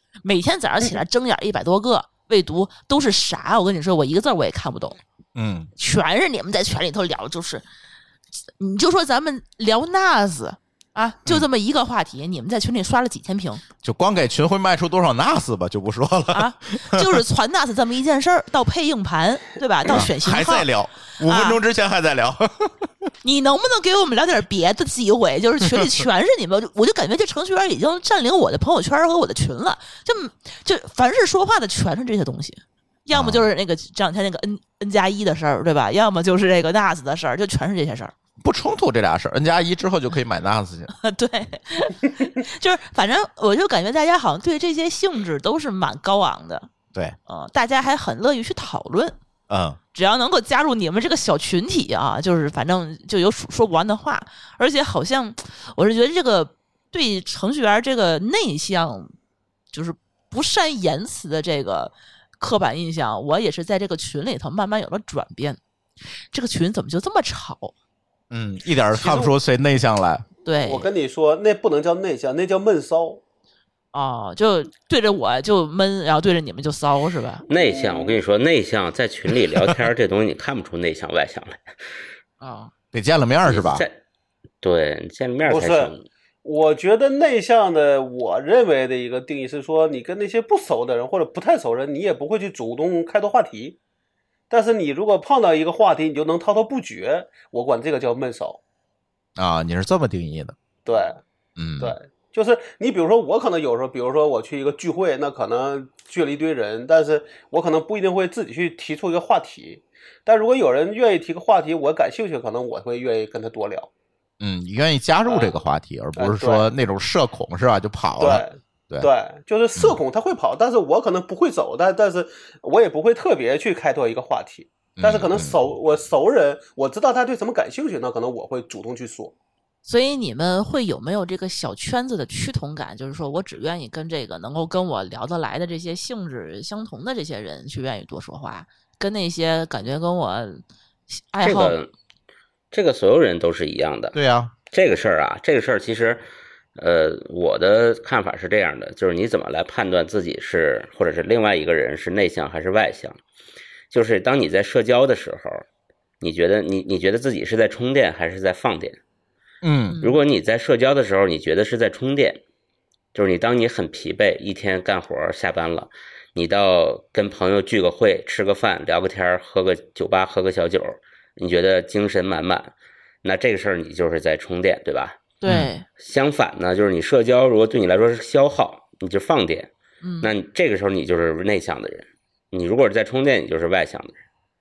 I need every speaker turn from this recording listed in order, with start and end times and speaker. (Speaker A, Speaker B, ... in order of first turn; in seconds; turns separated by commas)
Speaker A: 0.2-5.0, Speaker B: 5.3-5.7, Speaker A: 5.8-7.7, Speaker A: 8.6-13.6, Speaker B: 13.8-17.2, Speaker A: 16.3-20.7, Speaker B: 19.9-22.9, Speaker A: 21.2-21.6, Speaker A: 23.2-38.1, Speaker B: 33.1-33.5, Speaker B: 38.4-40.9, Speaker A: 41.0-46.7, Speaker A: 47.3-49.2, Speaker B: 49.5-49.8, Speaker A: 49.9-59.1, Speaker A: 59.7-65.6, Speaker A: 66.3-67.7, Speaker B: 68.3-70.3, Speaker C: 68.9-69.3, Speaker A: 70.5-70.9, Speaker C: 70.6-73.2, Speaker A: 73.9-77.5, Speaker D: 77.5-81.8, Speaker C: 77.5-78.2, Speaker A: 82.4-82.7, Speaker B: 82.9-83.8, Speaker D: 83.5-84.0, Speaker D: 84.6-86.0, Speaker C: 85.5-85.9, Speaker C: 86.4-93.8, Speaker C: 94.5-98.6, Speaker B: 99.4-100.5, Speaker C: 100.9-101.2, Speaker B: 101.6-102.0, Speaker C: 101.8-113.9, Speaker B: 114.4-119.1, Speaker C: 115.3-115.5, Speaker C: 116.2-116.7, Speaker C: 118.2-129.3, Speaker B: 125.0-125.6, Speaker A: 129.8-141.8, Speaker D: 141.4-141.9, Speaker D: 142.7-144.2, Speaker B: 144.1-144.5, Speaker D: 144.7-146.2, Speaker D: 146.8-153.2, Speaker D: 153.9-155.6, Speaker D: 156.2-159.0, Speaker B: 159.6-160.0, Speaker A: 159.9-160.2, Speaker D: 160.0-162.4, Speaker D: 163.1-172.7, Speaker D: 173.2-175.2, Speaker A: 175.4-175.9, Speaker D: 176.0-184.2, Speaker A: 180.0-180.3